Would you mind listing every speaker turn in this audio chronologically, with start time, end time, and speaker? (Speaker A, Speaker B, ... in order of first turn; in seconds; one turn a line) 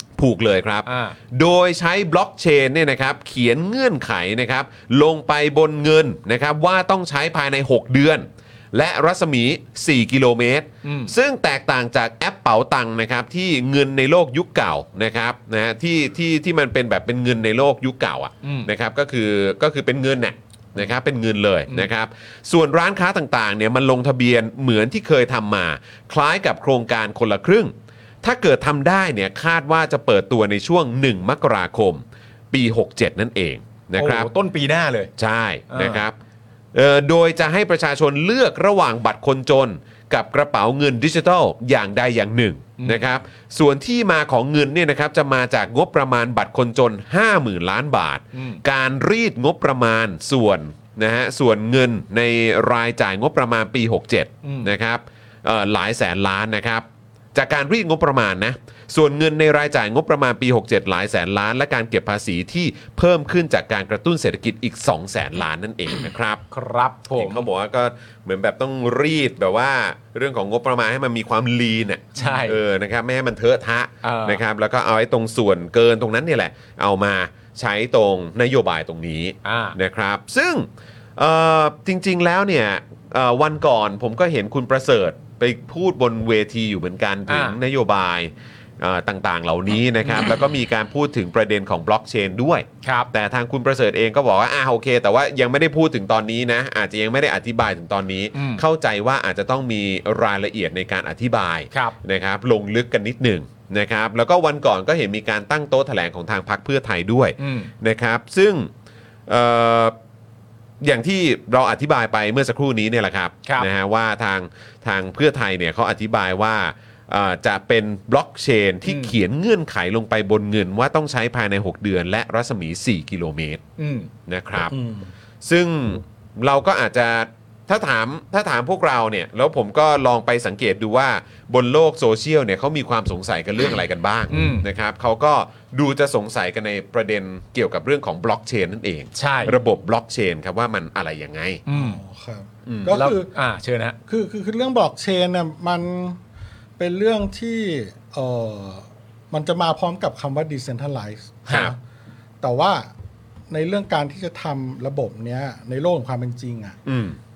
Speaker A: 0.2-34.3
Speaker B: 0.8-1.1
Speaker B: 10.8-11.1
Speaker B: 18.4-18.7
Speaker B: 34.0-35.1
Speaker A: 35.2-36.1
Speaker B: 35.7-36.0
Speaker A: 36.7-66.4
Speaker B: 42.8-43.0
Speaker B: 48.3-48.6
Speaker B: 54.4-54.7
Speaker B: 66.5-67.5
Speaker A: 67.1-108.7
Speaker B: 72.2-72.6
Speaker B: 74.0-74.4
Speaker B: 79.4-79.8
Speaker B: 87.3-87.5
Speaker B: 92.8-93.1
Speaker B: 98.3-98.6
Speaker B: 107.4-107.7
Speaker A: 109.3-109.9
Speaker A: 110.8-123.6
Speaker B: 118.8-119.1
Speaker B: 123.8-124.1
Speaker A: 124.3-124.7
Speaker C: 124.7-125.1
Speaker A: 125.4-141.6
Speaker B: 134.3-134.6
Speaker B: 139.1-139.6
Speaker B: 141.7-142.0
Speaker C: 141.7-143.3
Speaker A: 142.7-142.9
Speaker B: 142.9-143.9
Speaker C: 144.1-146.2
Speaker C: 146.8-151.7
Speaker B: 151.5-151.7
Speaker A: 151.5-151.7
Speaker C: 152.4-152.9
Speaker C: 153.5-156.8
Speaker A: 156.8-157.2